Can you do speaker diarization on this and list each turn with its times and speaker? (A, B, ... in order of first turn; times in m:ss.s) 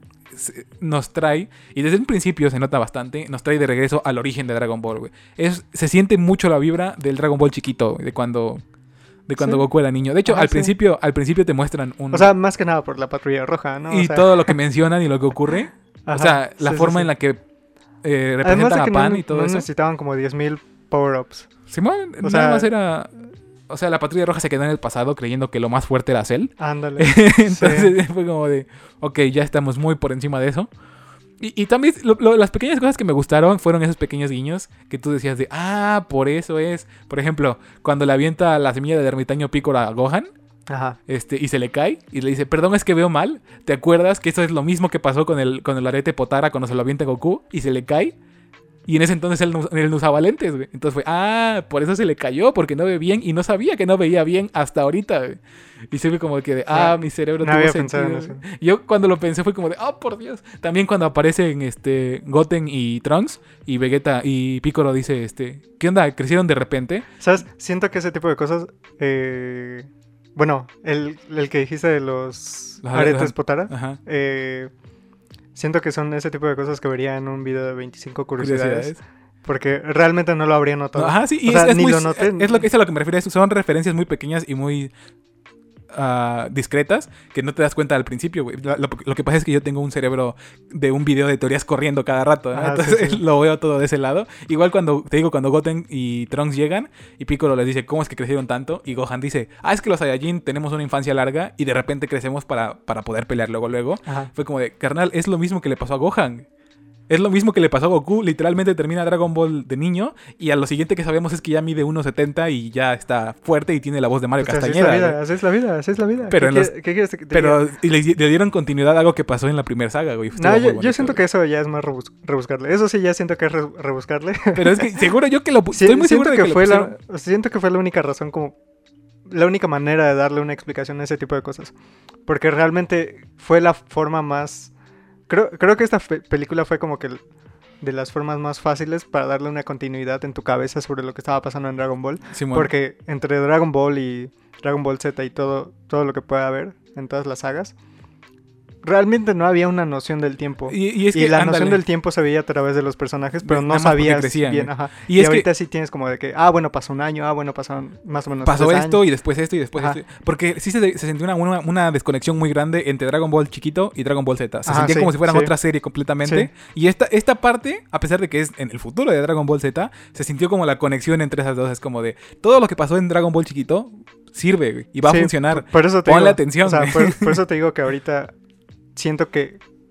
0:00.3-0:08.6 A
0:09.3-0:12.3 A
0:10.2-0:10.7 B
0:12.1-0:14.5 B
0:13.9-0:17.4 A
0:16.0-0:17.1 B
0:18.0-0:19.7 A
0:18.4-0:21.5 B
0:21.7-0:23.1 A
0:22.2-0:22.7 B
0:23.7-0:30.7 A
0:26.6-0:27.9 B
0:31.4-0:40.3 A
0:40.7-0:41.0 B
0:41.1-0:48.1 A
0:48.9-0:55.4 A
0:55.9-1:07.1 A
0:56.7-0:58.4 B
1:07.2-1:14.7 B
1:12.8-1:14.0 A
1:15.5-1:22.6 B
1:18.4-1:19.0 A
1:21.0-1:24.9 A
1:25.9-1:46.4 A
1:32.5-1:33.2 B
1:44.0-1:44.3 B
1:47.1-1:55.2 A
1:54.4-1:57.6 B
1:56.3-1:56.7 A
1:57.3-2:01.2 A
2:00.3-2:05.1 B
2:04.5-2:06.9 A
2:05.7-2:08.5 B
2:09.2-2:11.7 B
2:12.2-2:14.7 B
2:15.3-2:17.2 B
2:17.8-2:27.7 B
2:22.3-2:22.7 A
2:28.8-2:39.0 B
2:30.7-2:31.8 A
2:33.4-2:35.5 A
2:38.4-2:57.4 A
2:44.6-2:45.5 B
2:46.2-2:46.5 B
2:55.0-2:58.3 B
2:58.9-2:59.6 B